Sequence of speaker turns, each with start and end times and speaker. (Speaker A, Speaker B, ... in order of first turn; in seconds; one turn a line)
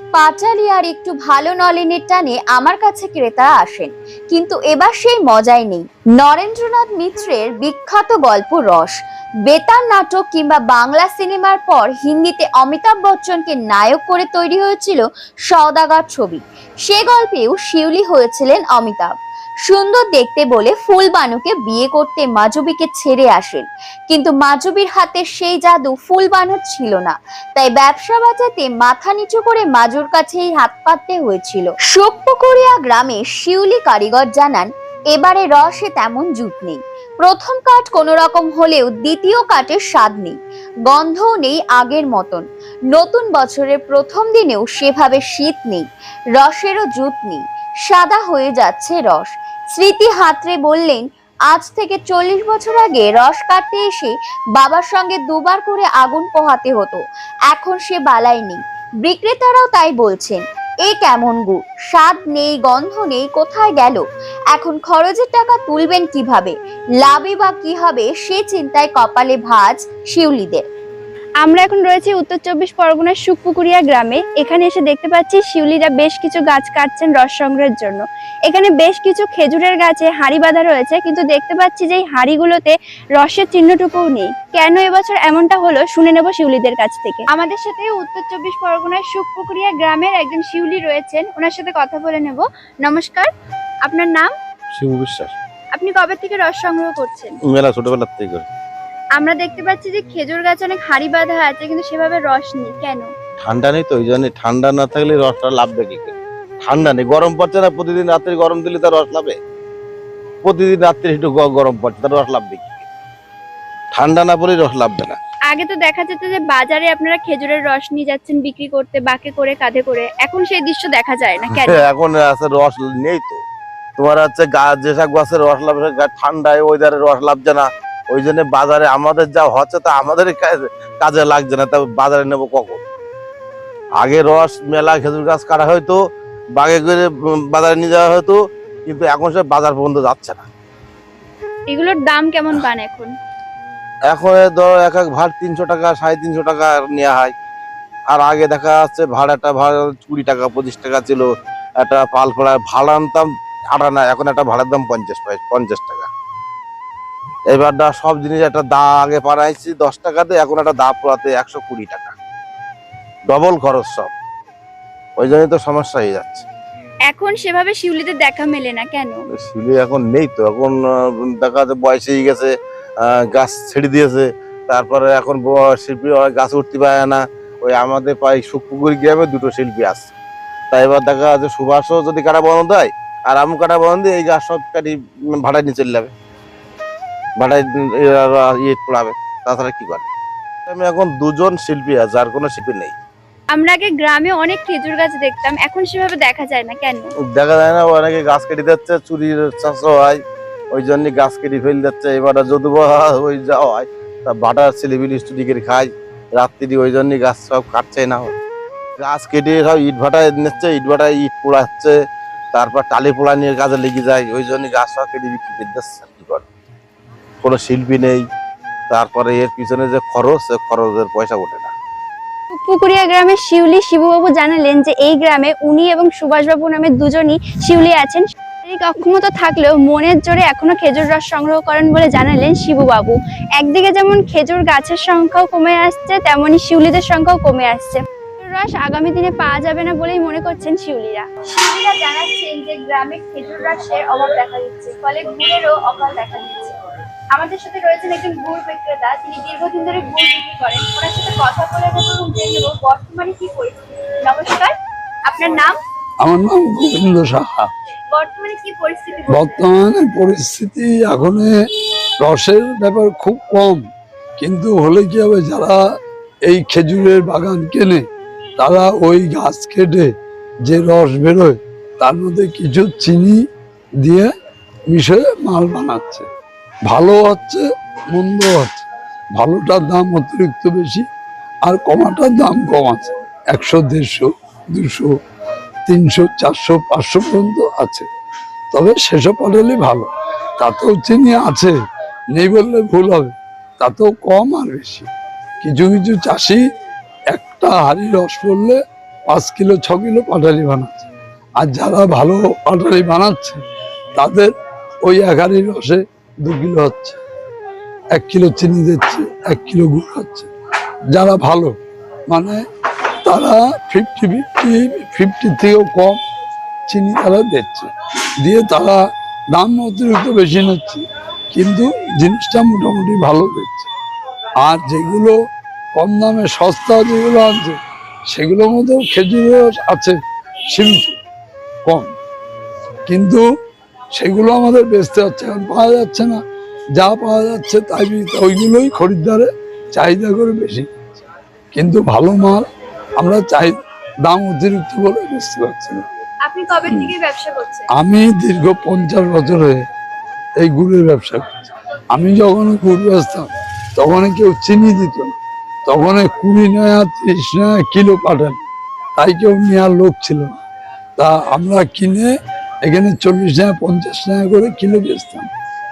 Speaker A: 0.2-8.9
Speaker A: 9.5-19.1
Speaker A: 19.6-40.4
Speaker A: 40.9-45.8
Speaker A: 46.4-70.6
Speaker B: 71.4-93.3
Speaker B: 93.8-94.3
Speaker C: 94.7-95.3
Speaker B: 95.7-97.3
Speaker C: 97.5-98.5
Speaker B: 99.2-103.1
Speaker C: 103.4-109.4
Speaker C: 110.4-112.8
Speaker C: 113.9-115.2
Speaker B: 115.5-121.8
Speaker C: 121.6-123.4
Speaker C: 124.0-132.8
Speaker C: 134.0-136.0
Speaker C: 136.6-140.5
Speaker B: 141.7-143.1
Speaker C: 144.1-147.3
Speaker C: 148.1-151.3
Speaker C: 151.8-156.1
Speaker C: 157.5-162.1
Speaker C: 163.3-164.1
Speaker C: 165.2-166.4
Speaker B: 167.1-169.2
Speaker C: 169.4-172.5
Speaker C: 173.0-180.1
Speaker C: 180.7-186.1
Speaker C: 187.4-190.1
Speaker C: 190.7-192.9
Speaker B: 193.5-197.1
Speaker C: 197.3-200.2
Speaker C: 200.7-208.3
Speaker C: 209.0-211.9
Speaker C: 212.5-216.5
Speaker C: 217.4-218.2
Speaker C: 218.9-221.7
Speaker B: 222.5-246.8
Speaker B: 247.3-254.7
Speaker B: 255.3-255.7
Speaker D: 256.2-257.7
Speaker B: 258.1-259.6
Speaker D: 259.3-261.5
Speaker D: 262.2-263.8
Speaker D: 264.4-265.8
Speaker D: 266.5-268.0
Speaker D: 268.6-270.1
Speaker D: 270.6-273.4
Speaker D: 274.0-274.3
Speaker D: 274.9-276.3
Speaker D: 276.9-278.8
Speaker D: 279.4-281.0
Speaker D: 281.6-285.1
Speaker D: 285.9-288.1
Speaker D: 288.7-290.1
Speaker D: 290.6-291.7
Speaker D: 292.3-295.1
Speaker D: 295.6-296.6
Speaker D: 297.3-298.8
Speaker D: 299.3-301.1
Speaker D: 301.6-303.6
Speaker D: 304.1-304.5
Speaker D: 305.0-307.2
Speaker D: 308.1-310.5
Speaker D: 311.1-311.7
Speaker D: 312.3-312.6
Speaker D: 313.2-316.2
Speaker D: 316.9-317.9
Speaker D: 318.4-319.0
Speaker D: 319.5-323.9
Speaker D: 324.6-325.4
Speaker D: 325.9-327.8
Speaker D: 328.3-330.2
Speaker D: 330.7-331.2
Speaker D: 331.9-332.1
Speaker D: 333.1-333.4
Speaker D: 334.1-336.4
Speaker D: 337.0-341.2
Speaker D: 341.7-342.6
Speaker D: 343.2-346.0
Speaker B: 346.4-347.9
Speaker D: 346.9-347.1
Speaker D: 347.9-349.8
Speaker D: 350.6-355.3
Speaker D: 355.9-358.6
Speaker D: 359.2-360.5
Speaker D: 361.2-362.3
Speaker D: 362.9-365.5